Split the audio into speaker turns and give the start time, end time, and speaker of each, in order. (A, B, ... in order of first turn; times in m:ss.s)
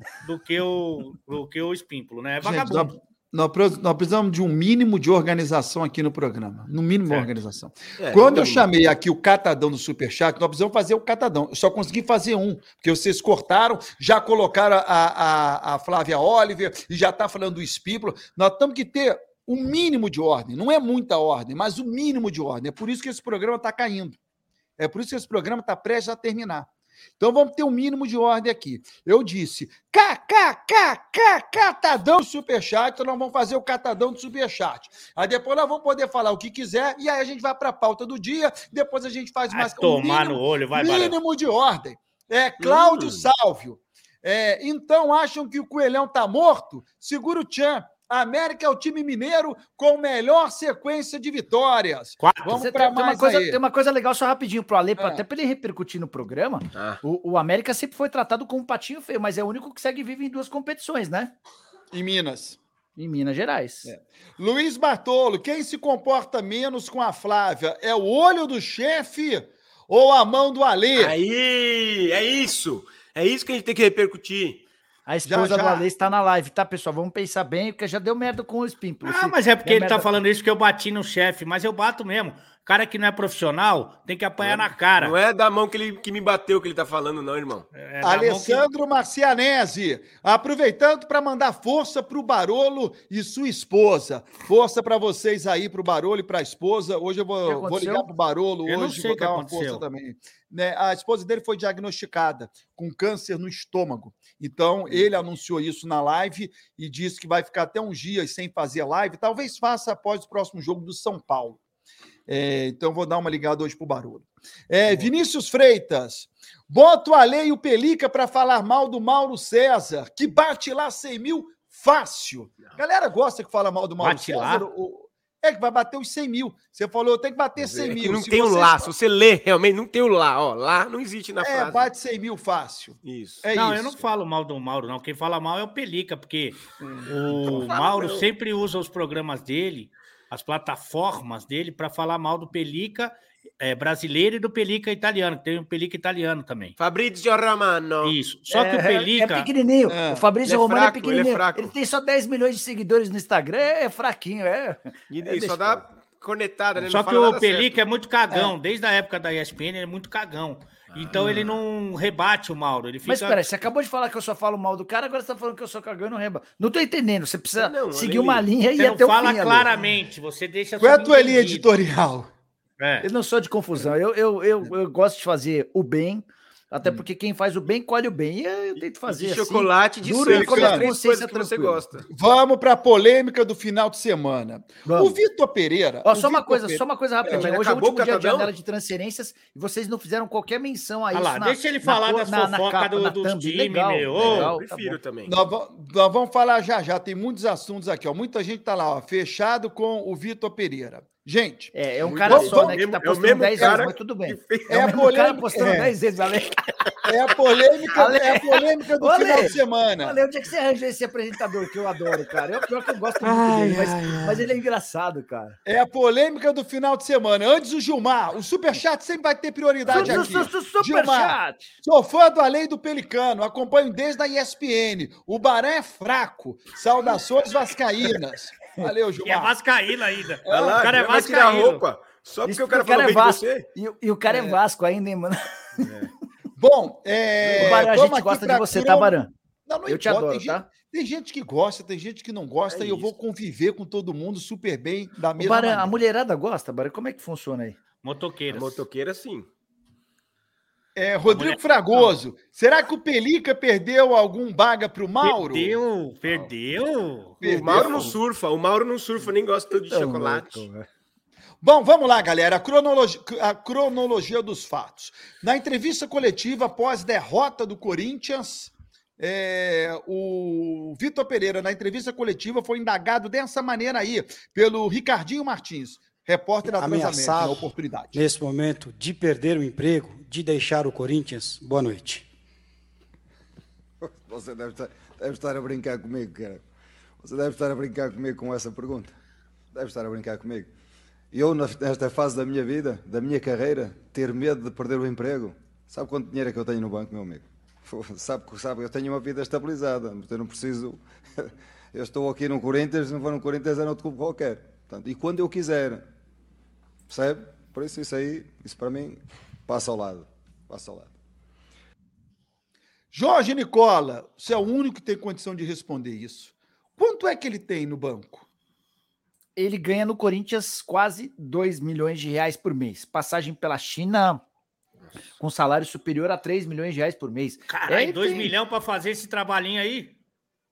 0:00.2-0:03.0 A
0:02.4-0:24.2 B
0:08.0-0:08.7 C
0:24.8-0:26.7 B
0:27.2-0:53.6 B
0:39.5-0:41.2 A
0:42.6-0:43.3 C
0:52.2-0:52.6 A
0:52.5-1:01.3 D
0:56.7-0:57.0 C
1:01.9-1:02.6 B
1:03.0-1:03.9 D
1:03.8-1:11.2 B
1:11.0-1:14.6 C
1:15.1-1:20.2 D
1:15.2-1:15.9 B
1:19.0-1:25.2 A
1:24.4-1:27.7 C
1:27.7-1:28.7 A
1:28.0-1:51.6 B
1:37.4-1:38.1 D
1:38.7-1:39.8 A
1:52.3-2:08.9 B
2:04.0-2:04.7 A
2:07.6-2:11.9 C
2:11.4-2:14.0 B
2:13.0-2:13.4 C
2:13.5-2:26.8 A
2:16.8-2:17.1 B
2:17.3-2:18.3 C
2:26.8-2:28.2 C
2:28.0-2:29.5 A
2:28.5-2:35.8 D
2:29.9-2:30.3 B
2:30.4-2:31.7 C
2:35.1-2:37.8 C
2:36.8-2:43.5 A
2:40.9-2:41.6 C
2:41.2-2:41.4 B
2:43.0-2:49.7 D
2:47.6-2:48.5 C
2:48.8-2:51.7 A
2:50.8-2:52.3 B
2:52.8-2:53.1 A
2:53.0-3:01.8 D
2:59.1-3:02.0 C
3:00.2-3:00.9 B
3:02.1-3:07.4 B
3:04.9-3:05.2 D
3:06.0-3:15.0 D
3:07.3-3:08.5 C
3:11.1-3:14.5 A
3:14.2-3:15.3 C
3:15.3-3:22.8 B
3:21.7-3:26.5 D
3:22.0-3:25.1 C
3:23.6-3:23.8 B
3:24.7-3:25.9 B
3:27.0-3:30.2 B
3:28.0-3:35.6 D
3:33.2-3:34.4 A
3:35.6-3:49.6 B
3:39.9-3:41.7 D
3:40.0-3:40.2 C
3:49.2-3:51.8 A
3:50.4-3:53.7 C
3:50.5-3:50.8 B
3:52.4-3:55.9 D
3:54.3-3:54.6 B
3:55.8-3:56.1 C
3:56.6-3:59.2 B
3:57.5-3:57.8 C
3:57.6-3:59.3 D
3:59.7-4:06.0 B
3:59.9-4:00.7 D
4:02.7-4:03.1 C
4:05.4-4:07.8 D
4:08.0-4:08.8 A
4:08.5-4:09.5 C
4:11.0-4:15.8 B
4:11.3-4:12.1 A
4:15.2-4:17.4 A
4:17.4-4:18.2 B
4:17.4-4:20.7 C
4:19.9-4:20.9 D
4:21.6-4:38.2 B
4:36.7-4:42.2 E
4:44.0-4:46.6 F
4:47.2-4:49.1 F
4:49.7-4:50.7 F
4:51.3-5:06.1 F
5:07.1-5:11.1 F
5:13.1-5:18.5 B
5:19.6-5:24.4 D
5:25.0-5:25.4 C
5:25.4-5:28.5 D
5:27.7-5:30.2 A